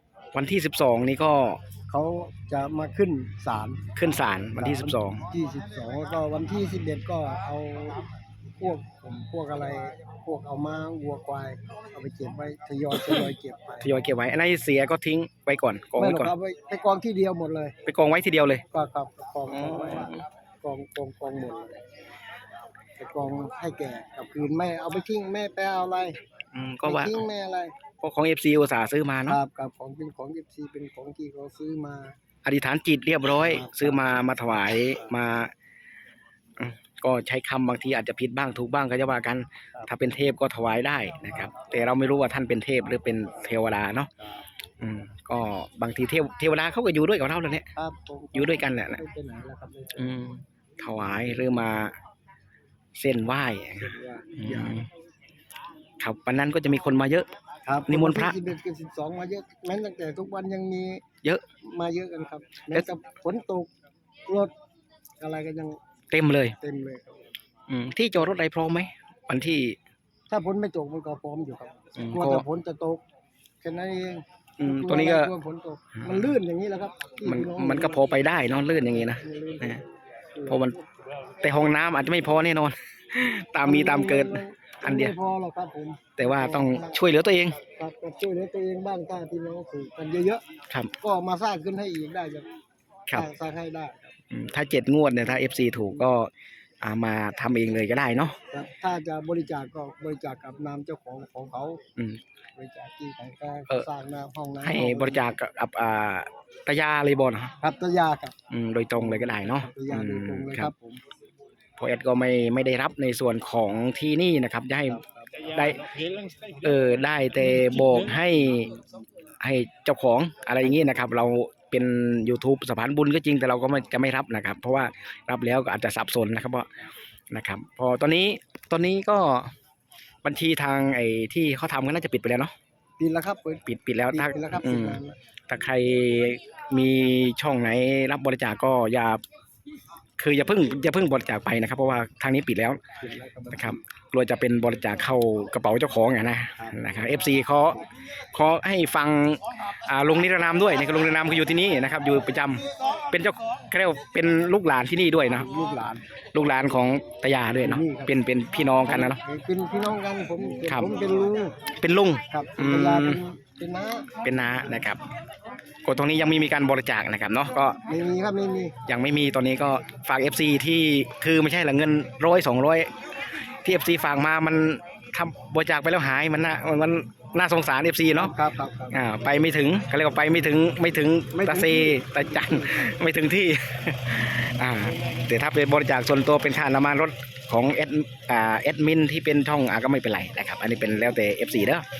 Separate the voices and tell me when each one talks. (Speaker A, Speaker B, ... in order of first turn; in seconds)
Speaker A: 0.3-1.6, 4.0-5.2, 13.8-16.3, 17.8-18.6, 19.5-20.2, 26.5-27.2, 28.0-29.4, 32.5-35.5, 36.6-44.1, 44.8-47.7, 48.3-49.0, 50.0-52.0, 53.0-54.9, 56.0-57.3, 57.9-58.4, 66.1-66.5, 67.7-69.8, 72.0-72.4, 74.6-75.3, 76.0-76.3, 77.2-79.8, 80.5-80.7, 81.4-85.1, 86.2-87.6, 94.3-96.3, 96.8-98.4, 104.6-107.5, 108.5-110.7, 111.8-115.9, 116.6-118.7, 119.4-126.7, 127.3-129.5, 130.2-132.5, 133.7-139.2, 140.2-142.8, 143.5-155.5, 156.3-159.2, 161.8-163.2, 164.2-165.0, 165.8-167.8, 168.9-172.9, 173.6-178.3, 178.9-191.8
Speaker B: 1.9-3.8, 4.6-8.1, 8.6-13.9, 16.0-17.8, 18.7-21.8, 23.0-26.2, 26.8-27.7, 29.3-32.2, 33.4-34.2, 47.8-50.3, 53.8-54.8, 57.7-61.0, 61.6-63.7, 64.3-64.5, 65.2-65.8, 66.6-67.3, 70.3-73.0, 73.6-80.9, 83.6-87.0, 87.8-90.4, 91.0-92.5, 93.1-94.1, 98.5-101.8, 102.6-105.4, 107.6-108.3, 108.9-111.0, 114.9-115.5, 133.0-135.2, 143.0-143.8, 155.3-156.0, 157.6-158.2, 158.8-161.6, 162.3-164.1, 167.8-168.7, 178.2-179.0, 181.3-182.9